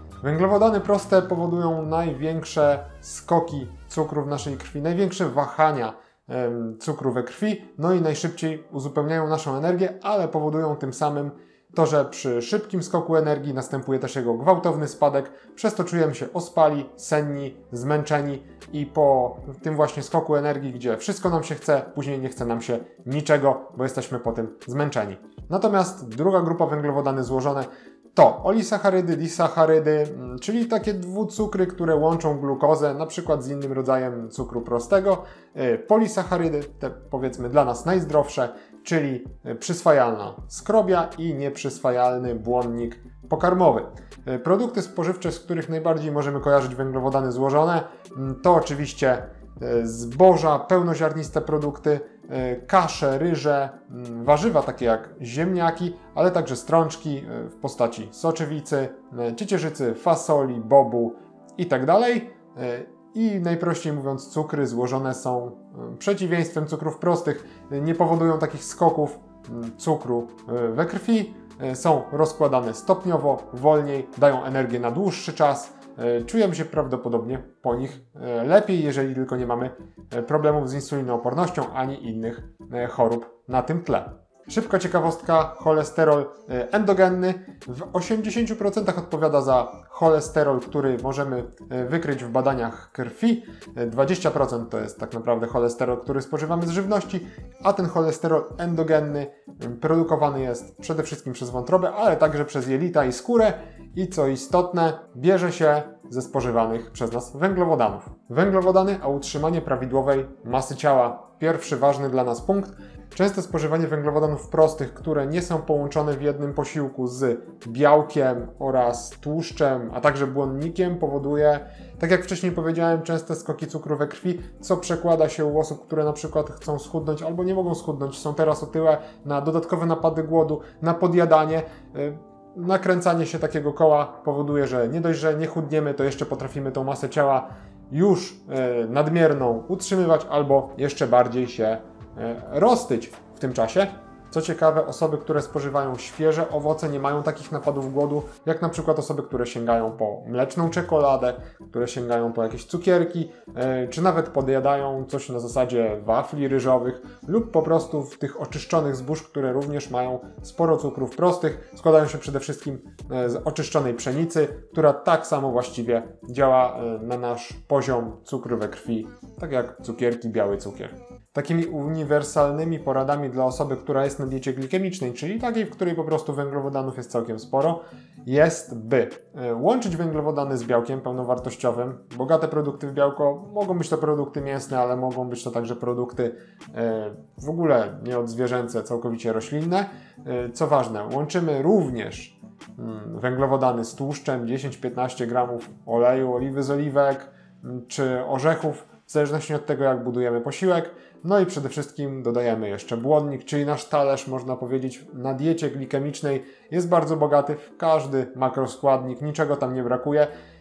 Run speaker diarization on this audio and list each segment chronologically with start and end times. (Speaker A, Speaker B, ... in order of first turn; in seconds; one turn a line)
Speaker A: 0.2-210.3